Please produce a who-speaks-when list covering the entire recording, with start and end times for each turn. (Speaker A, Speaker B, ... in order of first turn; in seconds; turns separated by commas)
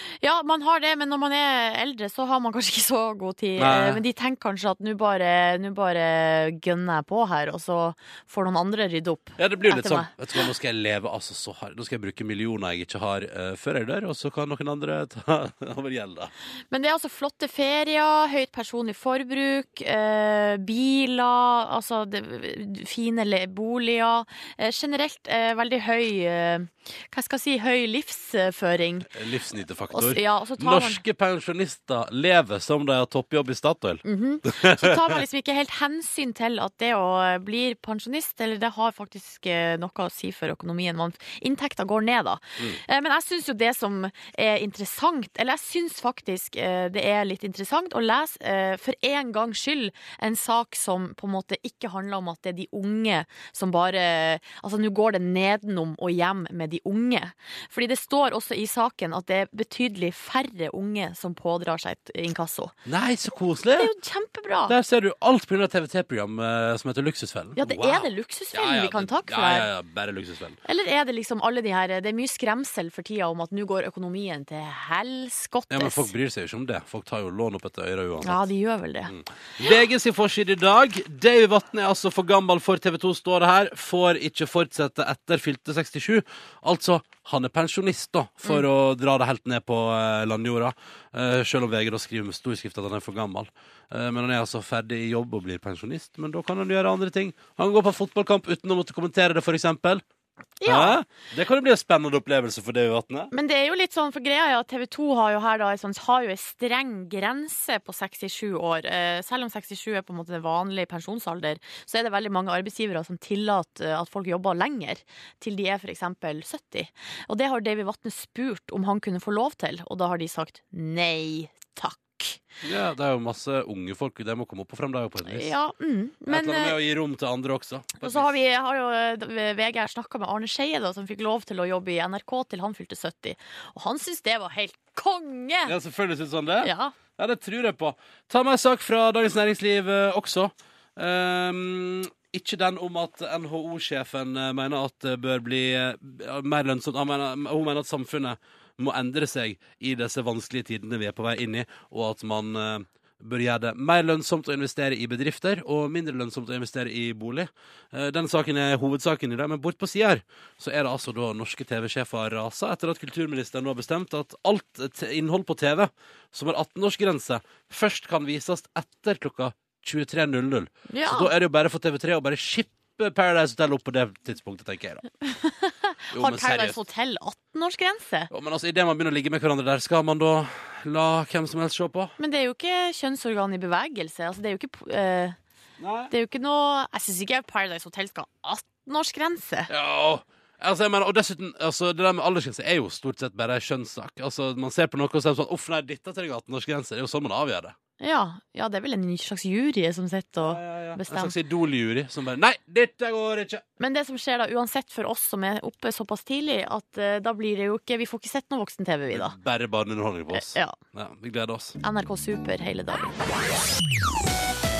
Speaker A: 0.2-10.1, Speaker B: 3.6-4.0, Speaker B: 9.4-16.3, Speaker A: 16.7-29.1, Speaker B: 29.1-35.2, Speaker A: 29.9-31.0, Speaker A: 34.0-62.7, Speaker B: 62.9-63.9, Speaker A: 63.8-64.8, Speaker B: 64.7-70.6, Speaker A: 67.5-69.7, Speaker A: 70.7-76.1, Speaker B: 75.7-78.5, Speaker A: 78.2-79.1, Speaker B: 79.1-100.0, Speaker A: 100.6-101.0, Speaker B: 100.6-103.3, Speaker A: 103.3-122.4, Speaker B: 122.6-125.5, Speaker A: 125.3-126.8, Speaker B: 126.3-128.3, Speaker A: 128.0-135.7, Speaker B: 135.7-175.0, Speaker A: 136.6-136.9, Speaker A: 170.9-171.3, Speaker A: 175.2-178.3, Speaker B: 176.1-176.8, Speaker B: 178.3-182.1, Speaker A: 182.2-185.3, Speaker B: 185.8-186.1, Speaker A: 186.1-189.7, Speaker B: 189.7-197.8, Speaker A: 198.0-201.3, Speaker B: 200.4-203.6, Speaker A: 203.8-209.3, Speaker B: 209.1-211.8, Speaker A: 210.3-210.8, Speaker A: 211.8-213.1